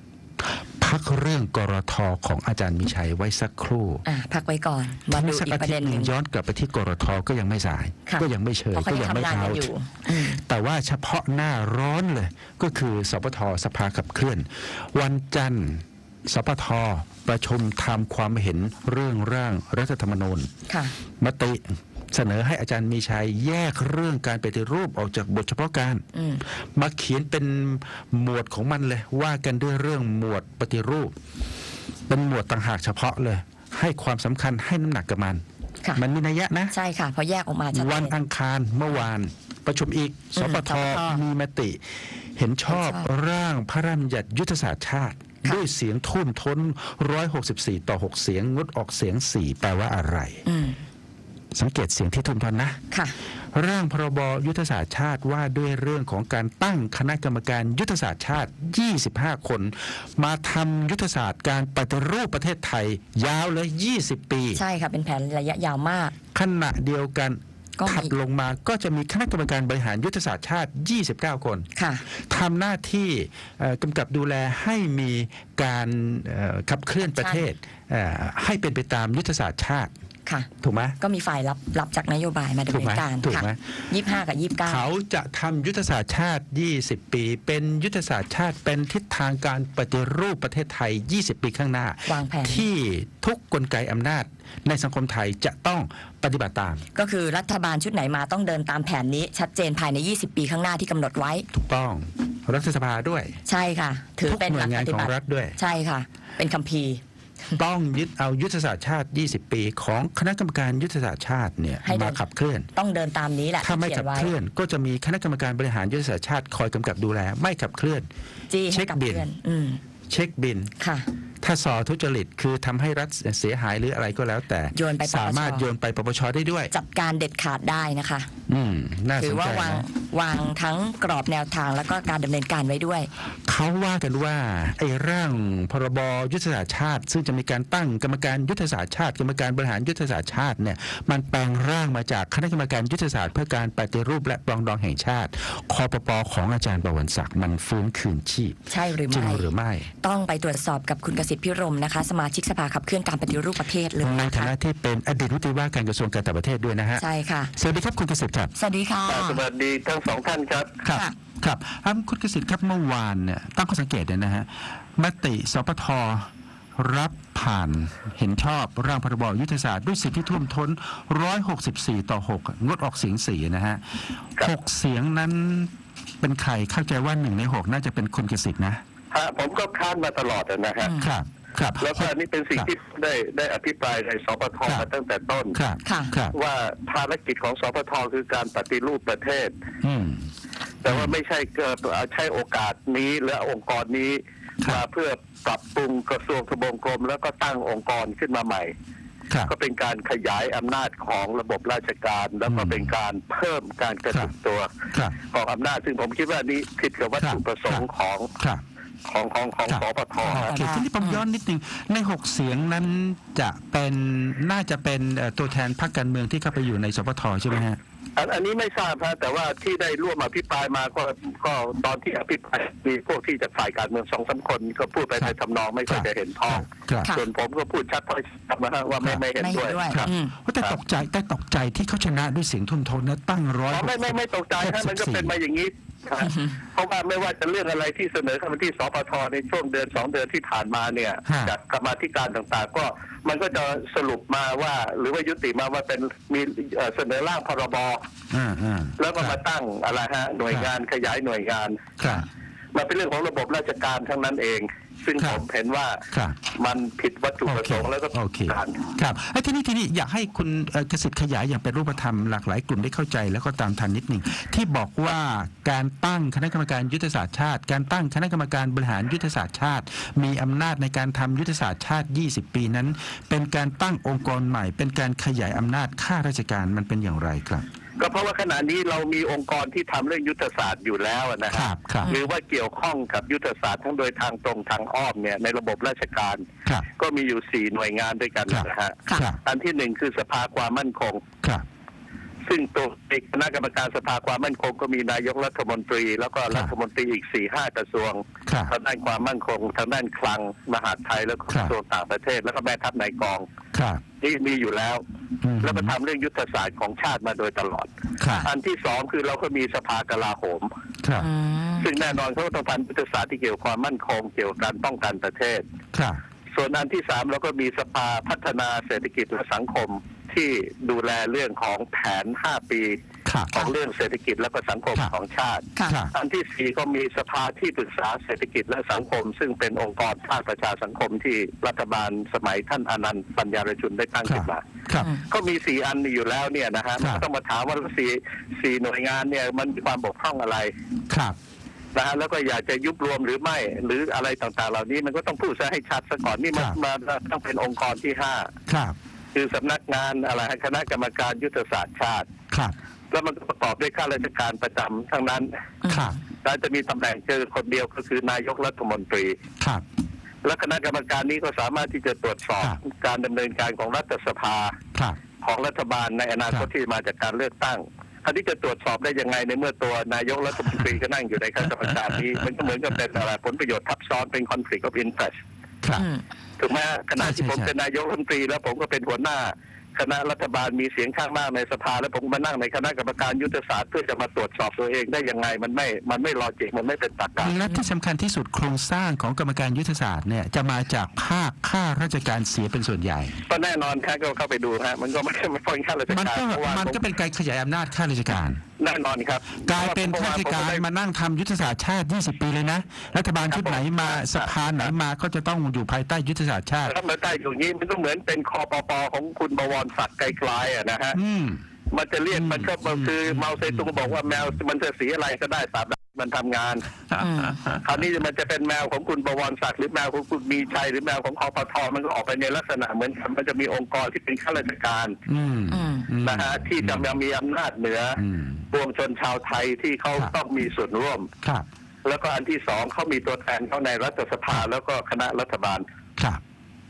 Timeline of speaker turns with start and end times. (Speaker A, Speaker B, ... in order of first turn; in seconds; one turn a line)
Speaker A: 0.4-4.0
Speaker B: 4.0-6.1
Speaker A: 5.1-20.5
Speaker B: 8.1-10.4
Speaker B: 20.7-20.9
Speaker A: 21.2-26.0
Speaker B: 26.1-26.4
Speaker A: 26.6-31.1
Speaker A: 32.1-35.4
Speaker A: 35.9-36.7
Speaker B: 36.7-38.1
Speaker A: 37.7-50.4
Speaker B: 40.4-41.2
Speaker B: 42.7-43.1
Speaker B: 50.5-50.8
Speaker A: 51.5-52.8
Speaker B: 52.9-53.1
Speaker A: 53.5-64.6
Speaker B: 64.5-66.2
Speaker A: 66.3-79.9
Speaker B: 67.8-68.1
Speaker B: 71.8-72.0
Speaker B: 77.0-77.4
Speaker B: 80.2-84.8
Speaker A: 80.6-81.0
Speaker A: 82.7-83.8
Speaker A: 84.6-96.8
Speaker B: 92.0-92.7
Speaker B: 96.9-101.5
Speaker A: 101.5-103.4
Speaker B: 103.5-107.6
Speaker A: 104.2-105.6
Speaker A: 107.5-112.7
Speaker B: 111.8-112.2
Speaker B: 112.7-114.3
Speaker A: 113.6-118.1
Speaker B: 118.5-119.8
Speaker A: 118.7-119.2
Speaker A: 120.1-120.7
Speaker B: 120.8-121.1
Speaker A: 121.4-126.7
Speaker B: 124.7-125.7
Speaker B: 126.7-128.3
Speaker A: 128.5-129.8
Speaker B: 129.2-133.1
Speaker A: 133.4-149.9
Speaker B: 148.7-154.5
Speaker A: 154.0-158.5
Speaker B: 157.0-157.5
Speaker B: 158.5-159.4
Speaker C: 159.1-160.8
Speaker A: 160.8-178.8
Speaker B: 160.9-161.1
Speaker C: 179.1-180.9
Speaker B: 180.8-181.1
Speaker A: 181.0-182.7
Speaker C: 181.8-185.6
Speaker A: 185.5-186.3
Speaker B: 185.8-186.1
Speaker C: 186.3-189.5
Speaker A: 189.8-190.2
Speaker C: 190.8-198.7
Speaker A: 190.8-191.1
Speaker C: 199.5-208.3
Speaker A: 202.4-202.9
Speaker A: 204.9-205.2
Speaker A: 207.2-207.8
Speaker C: 209.1-210.5
Speaker A: 209.7-217.8
Speaker B: 210.3-211.2
Speaker C: 218.2-229.8
Speaker A: 225.9-227.1
Speaker A: 229.0-229.2
Speaker B: 229.3-230.3
Speaker A: 229.9-235.3
Speaker C: 233.7-248.0
Speaker A: 241.2-241.5
Speaker A: 248.3-249.4
Speaker C: 249.0-251.8
Speaker A: 252.0-252.2
Speaker C: 252.7-256.0
Speaker A: 256.1-256.4
Speaker C: 256.5-258.8
Speaker A: 257.4-277.6
Speaker C: 278.0-286.4
Speaker A: 281.5-282.1
Speaker C: 287.0-291.2
Speaker A: 288.5-289.4
Speaker C: 292.5-303.4
Speaker A: 298.4-298.7
Speaker A: 303.7-304.0
Speaker C: 304.2-305.0
Speaker A: 305.4-305.9
Speaker C: 305.6-307.9
Speaker A: 308.2-308.5
Speaker C: 308.4-310.7
Speaker A: 311.0-311.3
Speaker B: 311.2-312.1
Speaker C: 311.8-315.6
Speaker A: 315.9-316.2
Speaker C: 316.6-323.0
Speaker A: 323.2-323.7
Speaker C: 323.5-334.7
Speaker A: 325.9-326.1
Speaker A: 334.2-335.1
Speaker B: 335.0-335.2
Speaker C: 335.2-340.7
Speaker A: 337.0-337.2
Speaker A: 341.1-341.4
Speaker C: 341.9-348.5
Speaker A: 348.7-348.9
Speaker C: 349.3-352.3
Speaker C: 353.1-355.5
Speaker B: 355.8-356.1
Speaker A: 355.9-356.2
Speaker C: 356.4-359.4
Speaker C: 360.4-364.8
Speaker C: 365.4-375.3
Speaker A: 375.8-376.1
Speaker B: 375.9-376.2
Speaker C: 376.6-387.6
Speaker A: 377.1-377.7
Speaker A: 387.4-393.3
Speaker C: 393.5-397.0
Speaker A: 396.1-398.6
Speaker C: 398.8-400.8
Speaker A: 399.6-406.9
Speaker C: 403.5-404.9
Speaker C: 406.9-411.2
Speaker A: 411.1-411.6
Speaker C: 411.9-416.9
Speaker A: 412.3-414.6
Speaker A: 417.1-417.8
Speaker B: 417.2-417.6
Speaker C: 417.8-425.2
Speaker A: 425.3-427.1
Speaker B: 425.7-426.1
Speaker C: 426.2-428.2
Speaker A: 428.2-428.6
Speaker C: 428.7-431.3
Speaker C: 432.0-435.8